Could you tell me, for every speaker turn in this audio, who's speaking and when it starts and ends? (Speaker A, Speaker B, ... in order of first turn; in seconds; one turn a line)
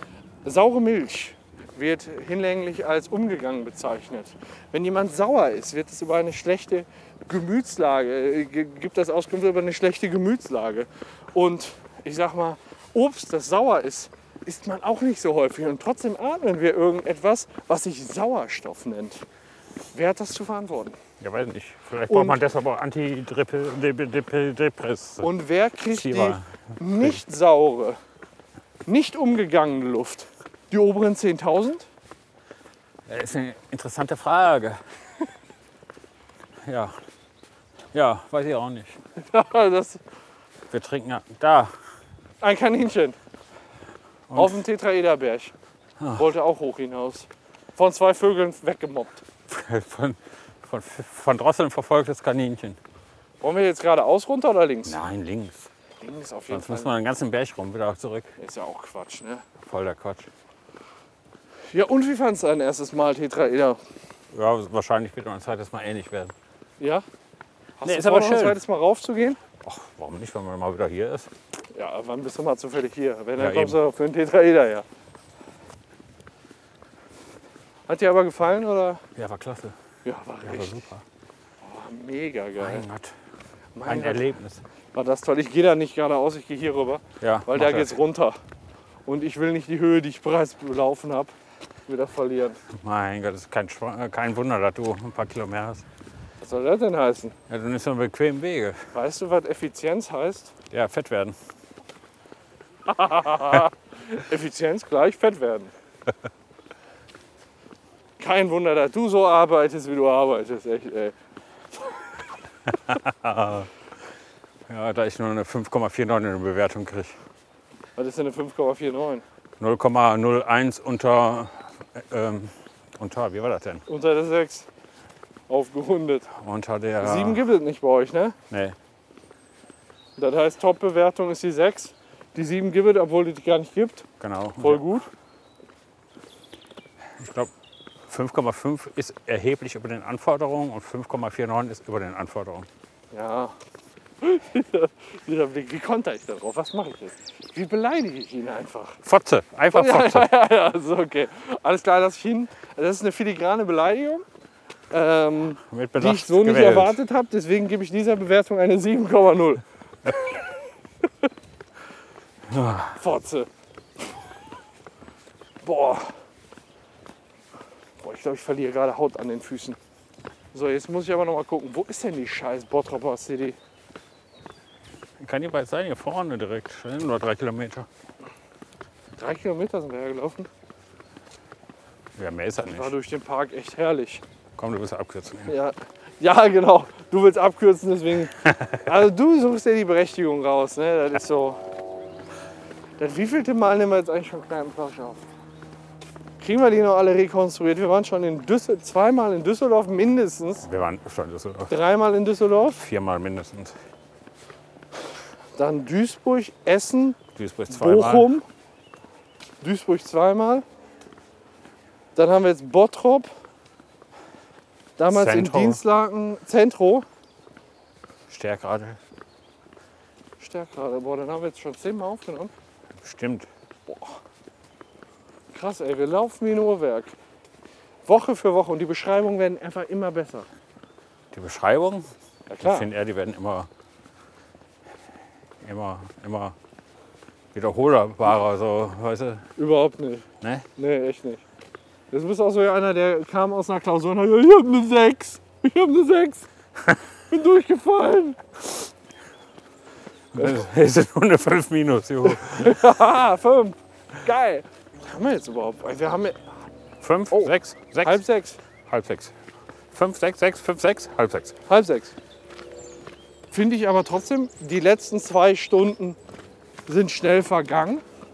Speaker A: 0.4-19.2
Speaker A: 19.9-21.0
Speaker B: 21.2-25.3
Speaker A: 22.1-22.4
Speaker A: 25.2-28.0
Speaker B: 25.9-27.2
Speaker A: 28.9-31.9
Speaker B: 33.1-34.8
Speaker B: 36.6-37.0
Speaker B: 37.9-39.0
Speaker A: 39.2-40.0
Speaker B: 40.7-41.7
Speaker A: 42.4-43.1
Speaker B: 44.3-44.6
Speaker A: 44.3-45.5
Speaker B: 46.0-46.3
Speaker A: 46.2-49.2
Speaker B: 49.5-52.8
Speaker A: 53.4-55.0
Speaker B: 54.8-55.7
Speaker A: 56.0-56.9
Speaker B: 56.5-58.3
Speaker A: 58.4-59.4
Speaker B: 59.6-60.3
Speaker A: 61.7-63.8
Speaker B: 64.3-66.3
Speaker A: 67.8-69.4
Speaker B: 67.8-68.6
Speaker B: 69.6-71.3
Speaker A: 71.7-74.8
Speaker B: 73.4-73.8
Speaker A: 77.9-79.0
Speaker B: 79.2-79.8
Speaker A: 80.0-80.8
Speaker B: 80.4-81.0
Speaker A: 81.6-82.8
Speaker B: 82.6-83.1
Speaker A: 83.7-84.3
Speaker B: 83.8-84.6
Speaker A: 84.9-88.4
Speaker B: 87.2-87.9
Speaker A: 89.0-91.3
Speaker A: 91.9-92.6
Speaker B: 92.7-95.8
Speaker A: 96.4-97.3
Speaker B: 97.5-98.8
Speaker A: 98.9-100.5
Speaker B: 100.7-101.4
Speaker A: 102.8-105.7
Speaker A: 108.2-111.1
Speaker B: 112.7-113.7
Speaker B: 114.7-117.1
Speaker A: 118.0-119.2
Speaker B: 119.6-123.8
Speaker A: 123.9-124.7
Speaker A: 125.5-126.3
Speaker B: 126.3-127.4
Speaker A: 127.0-128.3
Speaker B: 128.5-128.8
Speaker A: 130.2-134.1
Speaker B: 134.2-134.8
Speaker A: 134.6-135.1
Speaker B: 137.2-137.5
Speaker B: 138.1-142.7
Speaker A: 143.1-143.5
Speaker A: 144.2-149.0
Speaker B: 149.0-150.3
Speaker A: 149.7-154.2
Speaker A: 154.9-160.4
Speaker B: 155.7-157.0
Speaker B: 162.5-163.0
Speaker A: 162.9-163.5
Speaker A: 165.6-166.1
Speaker A: 168.0-169.8
Speaker A: 170.5-173.6
Speaker B: 175.2-177.9
Speaker A: 179.2-180.5
Speaker B: 182.2-182.9
Speaker A: 182.7-184.2
Speaker B: 184.6-185.5
Speaker A: 185.5-191.6
Speaker A: 193.0-195.2
Speaker A: 196.4-200.7
Speaker B: 200.6-201.7
Speaker A: 201.7-202.8
Speaker B: 202.7-203.7
Speaker A: 205.6-207.2
Speaker B: 207.3-208.3
Speaker A: 207.7-208.4
Speaker A: 209.6-210.6
Speaker A: 212.1-213.3
Speaker A: 215.0-217.1
Speaker B: 215.1-215.8
Speaker B: 218.3-219.0
Speaker A: 220.4-222.5
Speaker B: 223.0-223.5
Speaker A: 223.9-224.2
Speaker A: 225.5-227.1
Speaker A: 228.1-230.5
Speaker B: 231.3-232.1
Speaker A: 232.5-232.9
Speaker B: 232.6-233.7
Speaker B: 235.6-236.6
Speaker B: 237.5-239.4
Speaker A: 239.6-240.2
Speaker B: 240.4-240.7
Speaker A: 240.8-241.4
Speaker A: 242.1-246.4
Speaker A: 247.3-248.4
Speaker B: 250.3-252.9
Speaker A: 252.2-256.5
Speaker B: 257.0-258.2
Speaker A: 257.3-258.6
Speaker B: 258.9-259.3
Speaker B: 259.9-261.6
Speaker A: 261.7-262.1
Speaker A: 263.5-266.2
Speaker A: 266.9-268.0